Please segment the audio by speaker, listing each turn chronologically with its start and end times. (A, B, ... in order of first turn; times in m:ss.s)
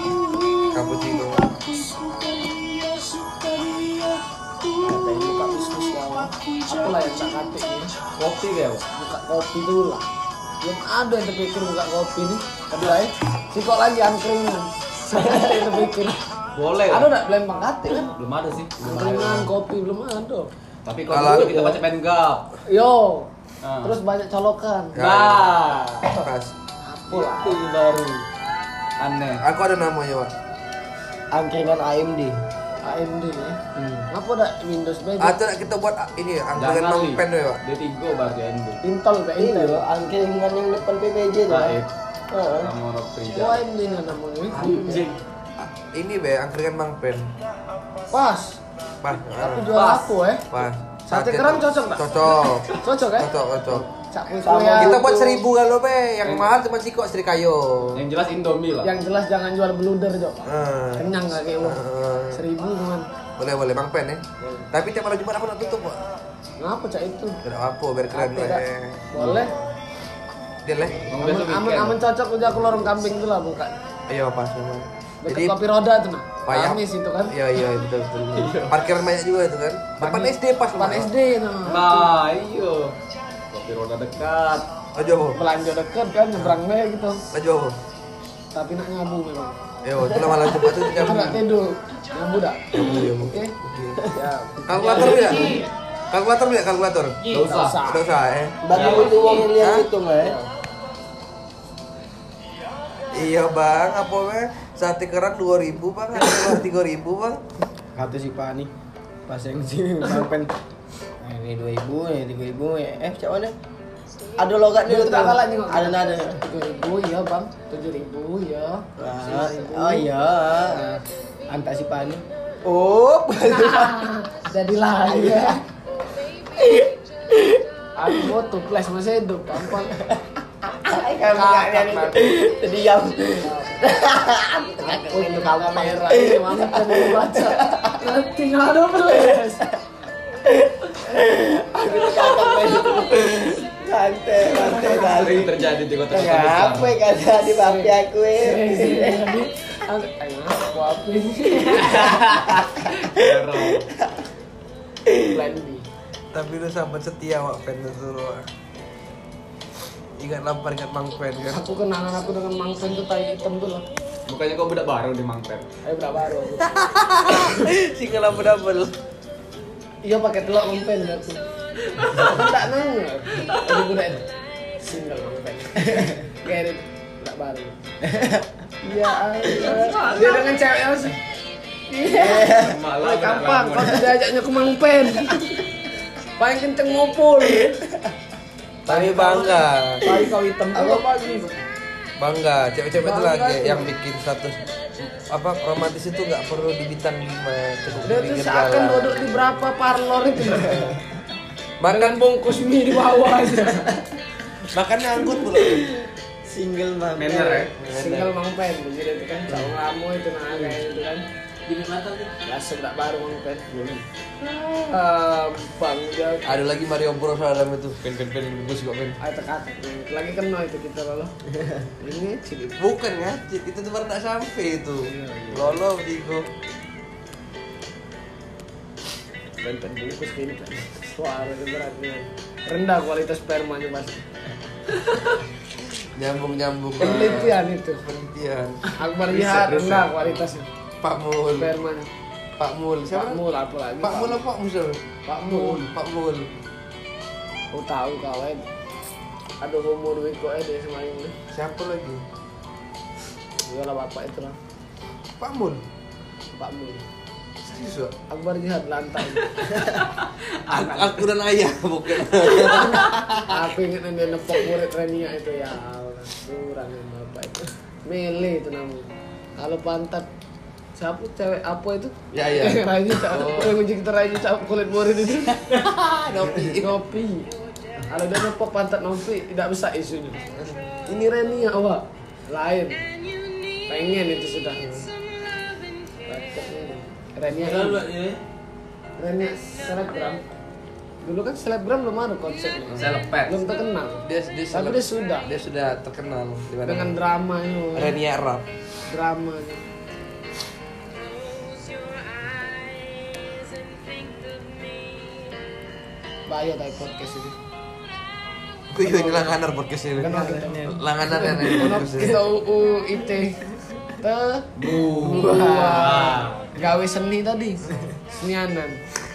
0:00.7-0:01.6 A
0:02.0-0:04.1 B
0:04.8-0:07.1 C
0:04.9-0:07.9 B
0:08.2-0:08.8 D
0:08.9-0:10.0 B
0:10.6-0:16.2 B
0:15.1-0:15.7 C
0:16.6-0:17.1 D
0:16.9-0:18.1 B
0:18.2-0:19.5 D
0:18.8-0:20.5 B
0:20.8-0:22.5 D
0:21.1-0:21.8 A
0:22.7-0:23.3 B
0:23.6-0:24.0 D
0:23.8-0:25.0 B
0:25.0-0:26.5 A
0:25.0-0:26.3 D
0:26.8-0:27.6 B
0:27.2-0:28.2 D
0:29.0-0:29.4 D
0:29.4-0:30.3 A
0:31.3-0:32.4 C
0:32.8-0:33.6 B
0:33.8-0:34.0 C
0:34.1-0:35.4 B
0:35.2-0:37.6 A
0:36.6-0:38.8 D
0:38.8-0:39.8 B
0:39.4-0:41.8 C
0:41.5-0:41.9 D
0:42.5-0:43.6 D
0:43.3-0:45.0 B
0:44.5-0:45.1 C
0:44.6-0:45.1 D
0:45.9-0:47.3 A
0:48.1-0:48.6 B
0:49.0-0:49.8 A
0:49.4-0:50.5 B
0:49.7-0:50.2 D
0:50.5-0:53.8 A
0:51.1-0:52.1 B
0:52.8-0:53.3 B
0:54.1-0:55.0 B
0:54.4-0:55.5 C
0:54.8-0:58.0 A
0:56.2-0:56.5 D
0:58.0-0:59.0 D
0:58.8-1:03.1 B
1:00.5-1:02.4 A
1:03.4-1:06.0 A
1:04.4-1:04.7 B
1:06.6-1:07.4 B
1:07.4-1:09.4 A
1:08.1-1:09.5 B
1:10.7-1:11.1 A
1:11.1-1:12.0 D
1:11.2-1:13.7 B
1:14.1-1:15.6 A
1:15.2-1:17.3 B
1:16.5-1:21.1 A
1:18.3-1:18.9 D
1:20.0-1:20.3 D
1:20.7-1:22.1 B
1:21.7-1:23.0 D
1:23.5-1:24.7 D
1:25.0-1:25.4 A
1:25.4-1:27.2 B
1:27.3-1:27.8 A
1:28.5-1:29.6 B
1:29.8-1:31.4 A
1:30.0-1:30.8 C
1:31.0-1:33.5 B
1:32.7-1:34.0 A
1:34.1-1:35.5 B
1:34.7-1:38.6 A
1:34.8-1:35.7 E
1:37.2-1:37.7 E
1:37.3-1:37.8 D
1:37.5-1:38.0 B
1:38.6-1:40.4 C
1:38.7-1:39.2 D
1:38.8-1:39.5 E
1:39.6-1:39.9 A
1:43.1-1:47.4 A
1:48.0-1:48.7 C
1:49.3-1:50.5 C
1:51.2-1:53.6 C
1:54.4-1:56.4 C
1:54.8-2:00.1 B
1:59.0-2:00.9 C
2:00.7-2:01.0 B
2:01.5-2:04.1 C
2:03.5-2:05.6 B
2:05.1-2:05.6 C
2:06.6-2:07.6 C
2:08.0-2:10.0 B
2:09.9-2:10.2 C
2:10.7-2:18.0 C
2:11.3-2:12.3 B
2:13.4-2:13.9 B
2:14.8-2:19.6 B
2:19.1-2:19.5 C
2:20.5-2:25.6 C
2:24.5-2:27.0 D
2:26.1-2:29.4 C
2:27.5-2:32.7 B
2:31.6-2:34.1 C
2:33.0-2:33.9 D
2:35.1-2:35.4 C
2:35.3-2:35.9 B
2:36.3-2:38.5 A
2:40.2-2:41.7 A
2:41.5-2:43.8 B
2:44.3-2:45.7 D
2:45.8-2:46.8 B
2:46.6-2:48.9 A
2:50.0-2:51.4 B
2:52.1-2:54.2 B
2:54.8-2:57.8 B
2:55.8-2:56.2 C
2:58.0-2:58.5 C
2:58.8-3:01.2 B
2:59.7-3:00.0 C
2:59.7-3:00.4 E
3:01.9-3:05.6 B
3:02.0-3:02.8 C
3:02.4-3:04.1 D
3:06.4-3:07.8 B
3:08.9-3:11.6 B
3:08.9-3:10.1 A
3:10.0-3:11.0 C
3:12.2-3:19.4 A
3:13.0-3:13.9 B
3:18.1-3:21.0 B
3:21.8-3:22.2 A
3:21.9-3:24.0 B
3:24.7-3:25.8 A
3:25.3-3:27.7 C
3:27.2-3:27.7 D
3:27.8-3:28.3 A
3:27.9-3:31.2 B
3:31.7-3:32.3 E
3:32.4-3:33.8 B
3:34.4-3:36.6 B
3:36.5-3:38.0 A
3:38.0-3:39.2 D
3:39.2-3:41.3 B
3:42.0-3:42.8 B
3:42.8-3:46.5 A
3:45.1-3:45.8 B
3:49.6-3:54.3 B
3:56.2-3:58.8 A
3:57.0-3:58.0 B
3:58.9-4:00.7 B
3:59.3-4:00.4 D
4:01.0-4:01.7 A
4:01.6-4:02.1 B
4:02.6-4:03.4 A
4:03.1-4:04.5 B
4:04.0-4:06.5 A
4:05.3-4:05.9 B
4:07.7-4:08.7 B
4:09.6-4:11.4 B
4:11.5-4:12.2 A
4:13.7-4:14.6 B
4:15.4-4:15.8 A
4:16.5-4:17.0 B
4:17.6-4:18.1 A
4:18.3-4:19.6 B
4:20.7-4:23.6 A
4:23.5-4:30.3 B
4:31.0-4:35.6 B
4:32.3-4:33.8 A
4:35.7-4:37.0 A
4:36.8-4:37.5 B
4:38.1-4:40.4 B
4:40.5-4:40.8 A
4:41.1-4:43.0 B
4:43.9-4:44.8 B
4:46.3-4:48.1 B
4:47.6-4:48.4 E
4:49.2-4:50.4 B
4:51.2-4:55.5 B
4:53.0-4:53.6 D
4:54.2-4:57.2 A
4:56.8-4:58.2 B
4:58.0-4:58.6 A
4:59.1-4:59.8 B
5:06.5-5:07.6 B
5:08.9-5:12.4 A
5:09.1-5:09.5 B
5:10.2-5:14.7 B
5:10.3-5:12.0 C
5:14.8-5:16.8 D
5:15.2-5:16.5 C
5:15.4-5:17.8 B
5:18.3-5:19.0 B